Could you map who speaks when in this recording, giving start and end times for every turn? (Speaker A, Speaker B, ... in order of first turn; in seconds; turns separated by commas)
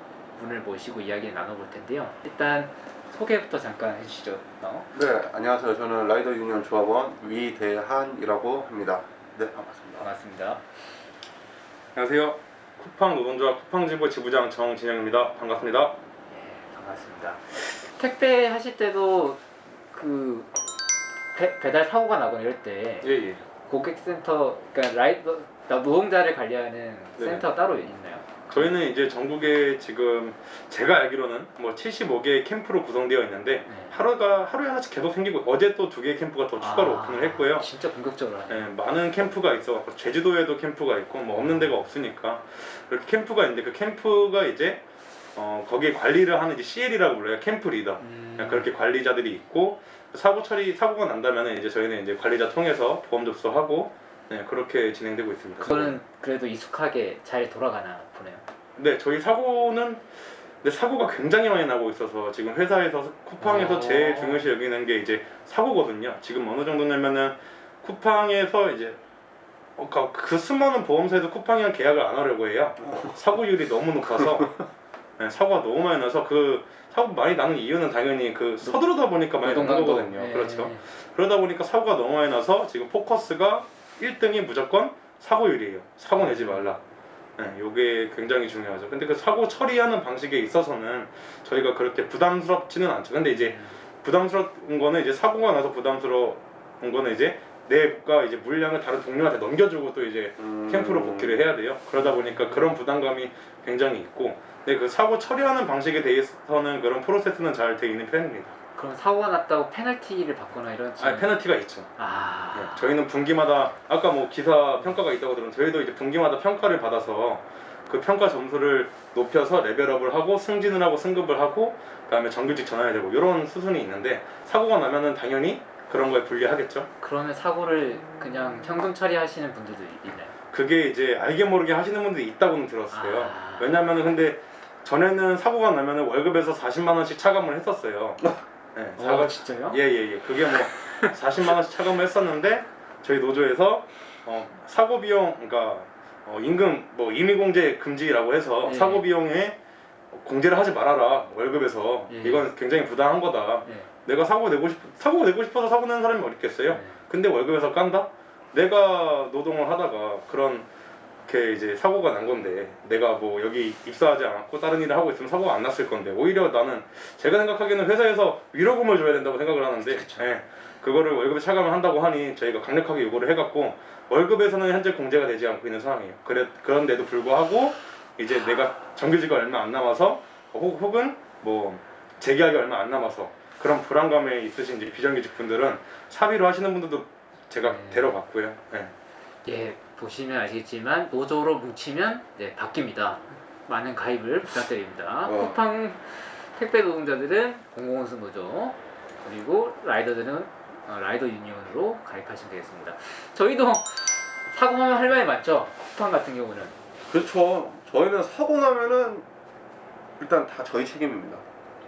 Speaker A: 0.3-4.9, Speaker B: 4.9-10.1, Speaker A: 10.0-10.6, Speaker C: 11.9-15.9, Speaker A: 16.3-20.6, Speaker A: 21.3-23.1, Speaker C: 23.0-23.4, Speaker A: 23.6-28.4, Speaker C: 27.2-27.4, Speaker C: 28.5-37.7, Speaker A: 33.6-33.9, Speaker A: 36.6-38.7, Speaker C: 38.5-44.8, Speaker A: 41.3-41.7, Speaker C: 45.4-56.0, Speaker A: 48.0-48.7, Speaker A: 55.6-58.4, Speaker C: 58.8-60.1, Speaker C: 60.6-69.0, Speaker A: 63.4-64.5, Speaker C: 69.8-74.6, Speaker C: 75.2-86.8, Speaker A: 79.4-80.8, Speaker A: 86.2-86.7, Speaker C: 87.4-108.5, Speaker A: 93.3-93.8, Speaker B: 100.4-101.5, Speaker A: 101.9-102.8, Speaker A: 108.8-111.4, Speaker C: 111.0-111.9, Speaker A: 112.0-112.9, Speaker C: 112.5-126.9, Speaker A: 127.0-130.3, Speaker C: 130.5-149.6, Speaker A: 132.9-133.8, Speaker A: 139.0-139.8, Speaker A: 140.5-141.1, Speaker A: 148.6-149.1, Speaker C: 150.1-160.7, Speaker A: 152.1-152.5, Speaker A: 153.6-153.9, Speaker A: 156.7-157.0, Speaker C: 161.3-188.9, Speaker A: 169.8-170.3, Speaker A: 187.6-188.2, Speaker A: 189.4-206.8, Speaker B: 195.2-195.6, Speaker B: 207.1-209.2, Speaker B: 210.2-211.4